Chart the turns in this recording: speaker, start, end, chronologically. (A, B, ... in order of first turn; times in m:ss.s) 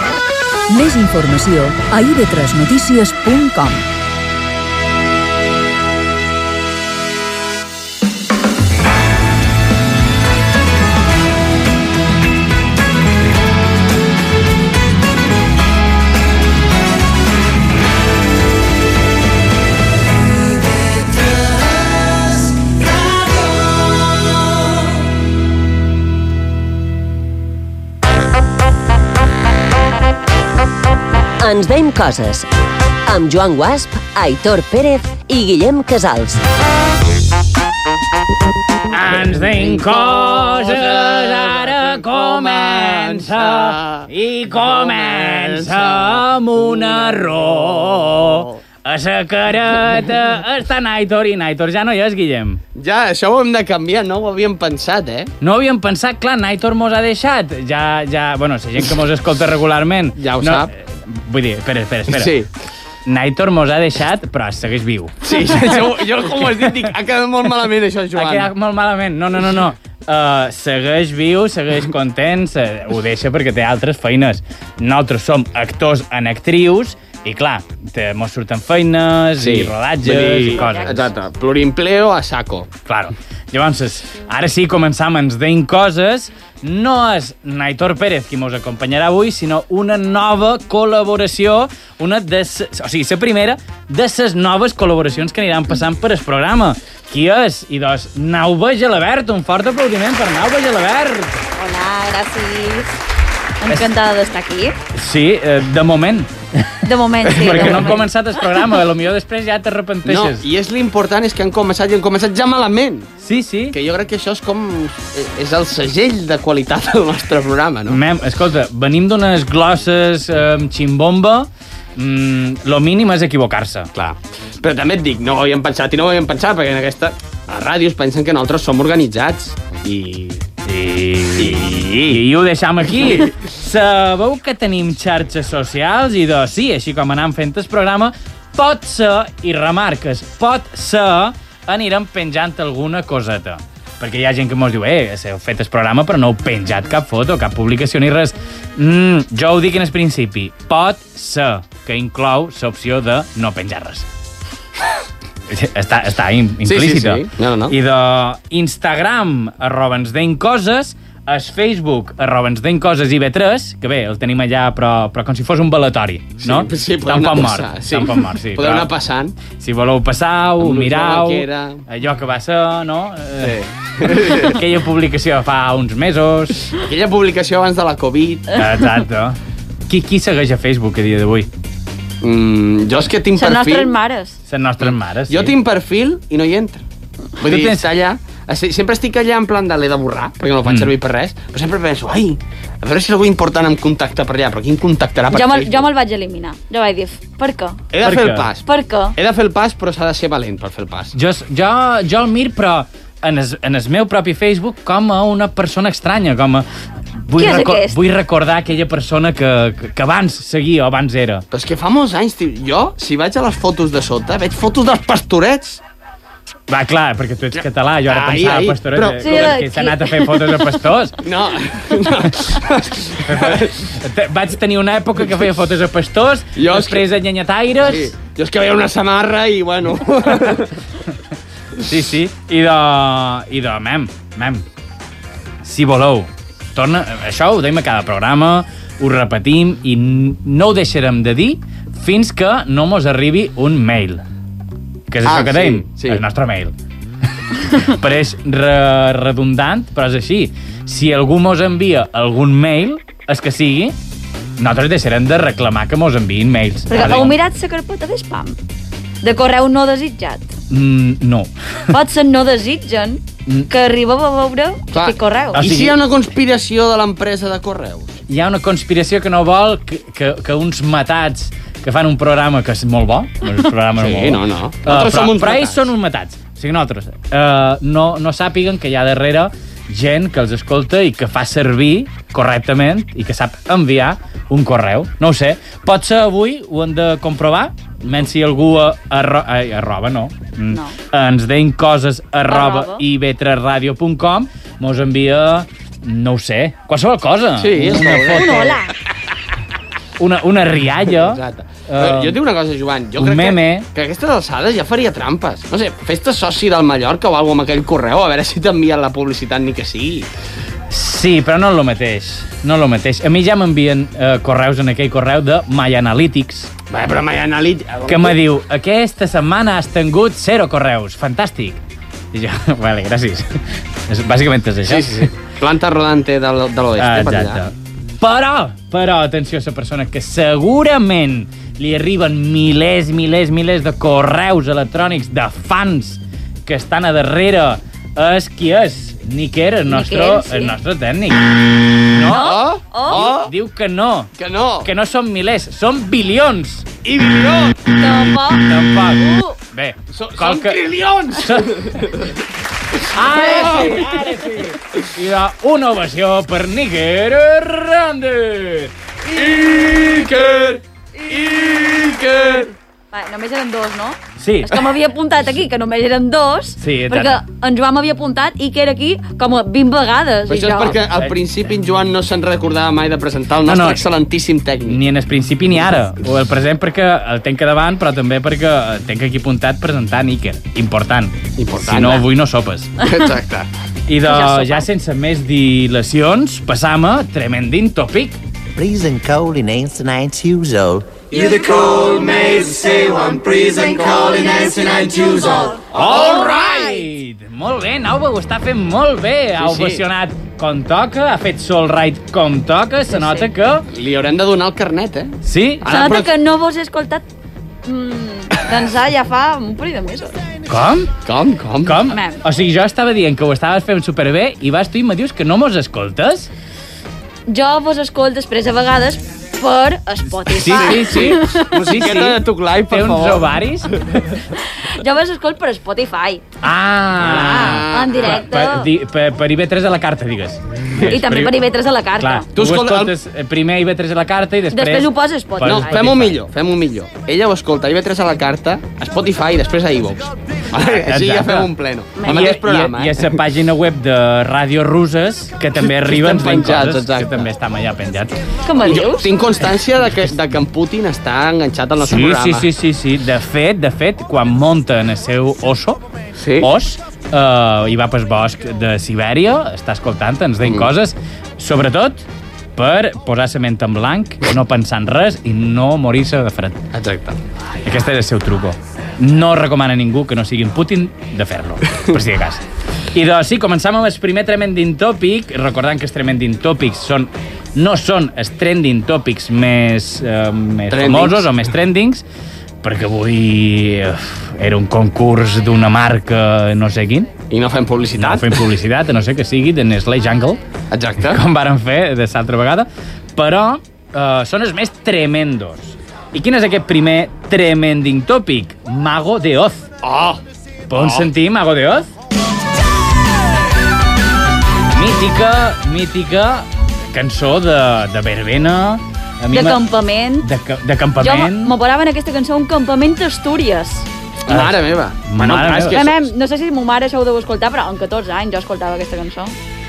0:00.7-0:03.9 A
0:31.4-0:32.5 B
0:33.1-0:36.4 B
0:38.9-0:52.6 C
0:39.7-0:47.4 D
0:52.7-0:55.3 D
0:55.4-1:02.3 C
1:00.2-1:00.7 D
1:02.1-1:02.5 D
1:03.0-1:06.9 C
1:05.2-1:08.5 D
1:08.1-1:21.1 C
1:19.4-1:22.7 D
1:22.9-1:41.4 C
1:41.5-1:42.9 E
1:43.6-1:44.8 E
1:44.9-1:50.4 C
1:46.8-1:48.1 E
1:47.4-1:47.9 D
1:50.0-1:53.1 D
1:53.2-1:53.8 C
1:53.7-1:58.0 D
1:57.9-2:03.9 C
2:04.0-2:10.4 D
2:10.7-2:34.1 C
2:11.4-2:12.2 D
2:35.5-2:48.9 C
2:36.6-2:37.8 D
2:46.4-2:49.4 D
2:49.5-2:56.7 C
2:50.6-2:51.8 D
2:53.4-2:54.6 D
2:56.8-2:58.6 D
2:58.5-3:01.5 C
3:02.2-3:03.9 D
3:03.3-3:04.4 E
3:04.5-3:05.5 C
3:05.3-3:06.8 D
3:07.4-3:15.9 D
3:07.4-3:07.9 C
3:10.6-3:10.9 C
3:15.3-3:17.9 E
3:17.9-3:18.6 D
3:18.0-3:18.5 C
3:18.6-3:19.2 E
3:19.2-3:21.1 D
3:21.1-3:31.4 C
3:27.4-3:28.0 E
3:31.5-3:35.8 D
3:36.7-3:41.2 C
3:38.1-3:39.6 D
3:39.2-3:40.4 E
3:41.2-3:43.8 D
3:43.2-3:48.1 C
3:46.6-3:47.1 D
3:47.8-3:50.8 D
3:51.8-3:54.6 C
3:55.6-4:04.2 C
4:05.1-4:06.7 C
4:05.2-4:06.2 D
4:07.7-4:14.0 C
4:14.6-4:17.4 C
4:16.9-4:18.6 E
4:17.0-4:17.2 D
4:19.2-4:20.6 E
4:20.7-4:21.5 C
4:21.9-4:25.6 E
4:24.9-4:28.2 D
4:25.5-4:26.0 C
4:28.3-4:58.8 C
4:34.0-4:35.8 D
4:50.7-4:51.0 E
4:52.5-4:53.0 E
4:57.6-4:58.8 D
4:58.3-4:58.9 E
5:00.2-5:02.4 C
5:01.2-5:10.3 D
5:03.2-5:03.9 C
5:10.9-5:16.7 C
5:16.9-5:18.4 D
5:18.1-5:21.8 C
5:22.3-5:25.3 C
5:24.9-5:27.6 D
5:27.0-5:44.3 C
5:39.9-5:40.8 E
5:42.3-5:43.2 E
5:42.3-5:43.5 D
5:44.4-5:44.9 D
5:44.8-5:46.9 C
5:47.0-5:47.9 D
5:47.9-5:49.6 E
5:48.6-5:50.8 C
5:50.1-5:52.3 D
5:51.4-5:52.1 C
5:53.1-6:02.6 C
5:53.4-5:54.2 D
6:01.3-6:02.7 D
6:03.1-6:11.0 E
6:04.4-6:04.8 C
6:06.8-6:07.4 C
6:10.5-6:15.0 D
6:13.6-6:14.0 C
6:14.9-6:23.0 C
6:21.6-6:22.2 D
6:23.0-6:23.7 D
6:24.1-6:28.4 C
6:24.2-6:24.9 E
6:28.8-6:31.2 F
6:31.3-6:36.4 D
6:34.9-6:35.7 E
6:35.8-6:43.9 C
6:39.6-6:40.0 D
6:43.1-6:43.5 E
6:43.9-6:46.3 D
6:45.4-6:46.0 C
6:45.9-6:47.2 E
6:47.8-6:50.4 E
6:50.7-6:51.1 C
6:51.2-6:52.1 D
6:51.8-6:56.5 C
6:52.1-6:52.4 E
6:57.5-7:01.7 E
7:00.5-7:04.4 C
7:00.6-7:03.5 D
7:04.8-7:06.6 E
7:06.6-7:11.6 C
7:07.2-7:08.5 D
7:07.3-7:08.9 E
7:10.9-7:11.2 D
7:11.0-7:12.5 E
7:12.2-7:16.4 C
7:12.6-7:13.2 D
7:14.7-7:16.0 E
7:15.6-7:23.4 D
7:20.9-7:21.7 C
7:22.2-7:22.4 E
7:22.2-7:28.4 C
7:25.8-7:27.5 D
7:28.6-7:29.4 E
7:28.8-7:32.7 D
7:32.0-7:36.0 C
7:36.4-7:36.7 D
7:36.6-7:46.8 C
7:46.9-7:47.4 D
7:47.8-8:02.2 C
8:00.9-8:01.6 D
8:02.8-8:07.3 C
8:07.5-8:08.7 D
8:08.2-8:10.6 C
8:10.9-8:11.4 D
8:11.2-8:19.9 C
8:20.0-8:20.4 D
8:20.9-8:22.1 C
8:21.0-8:21.3 D
8:24.9-8:29.8 C
8:29.5-8:30.5 E
8:30.4-8:31.8 C
8:31.2-8:34.1 E
8:34.4-8:36.3 D
8:34.5-8:36.0 C
8:35.9-8:39.5 E